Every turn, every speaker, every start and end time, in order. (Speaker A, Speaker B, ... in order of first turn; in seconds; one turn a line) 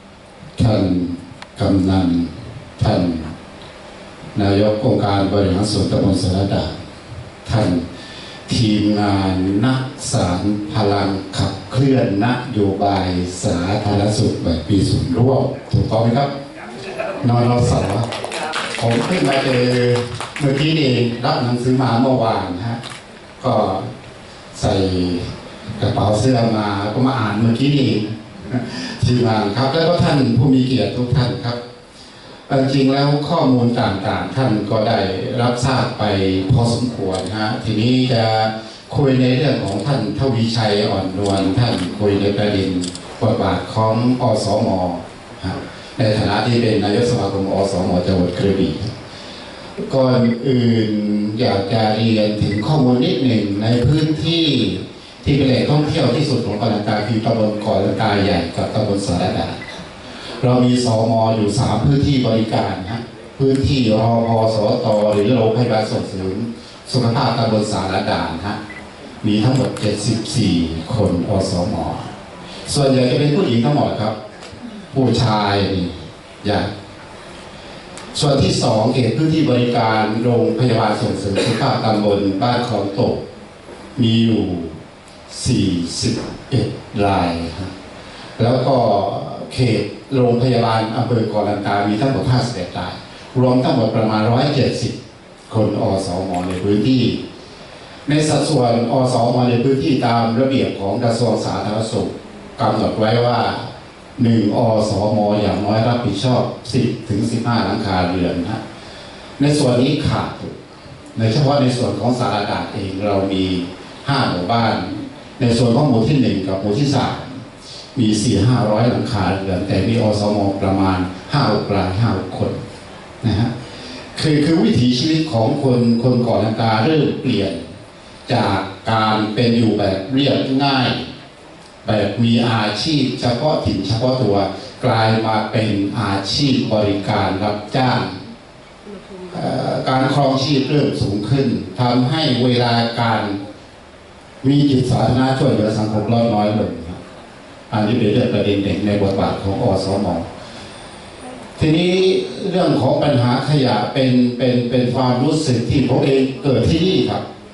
Speaker A: 0.6-3.3
Speaker A: 4.3-6.7
Speaker A: 7.5-7.8
Speaker A: 8.5-16.3
Speaker A: 17.2-18.1
Speaker A: 18.8-22.8
Speaker A: 23.4-23.9
Speaker A: 24.5-25.3
Speaker A: 25.8-31.6
Speaker A: 32.5-48.9
Speaker A: 49.9-59.8
Speaker A: 60.4-68.6
Speaker A: 69.2-72.1
Speaker A: 72.7-74.1
Speaker A: 74.9-76.7
Speaker A: 78.1-83.2
Speaker A: 84.0-84.8
Speaker A: 85.3-87.7
Speaker A: 88.4-95.0
Speaker A: 95.5-97.2
Speaker A: 98.1-108.6
Speaker A: 109.4-110.6
Speaker A: 111.2-117.4
Speaker A: 118.0-122.6
Speaker A: 123.2-123.5
Speaker A: 124.2-127.6
Speaker A: 128.3-131.1
Speaker A: 131.8-138.2
Speaker A: 139.3-143.4
Speaker A: 144.4-147.0
Speaker A: 147.7-150.3
Speaker A: 151.6-157.2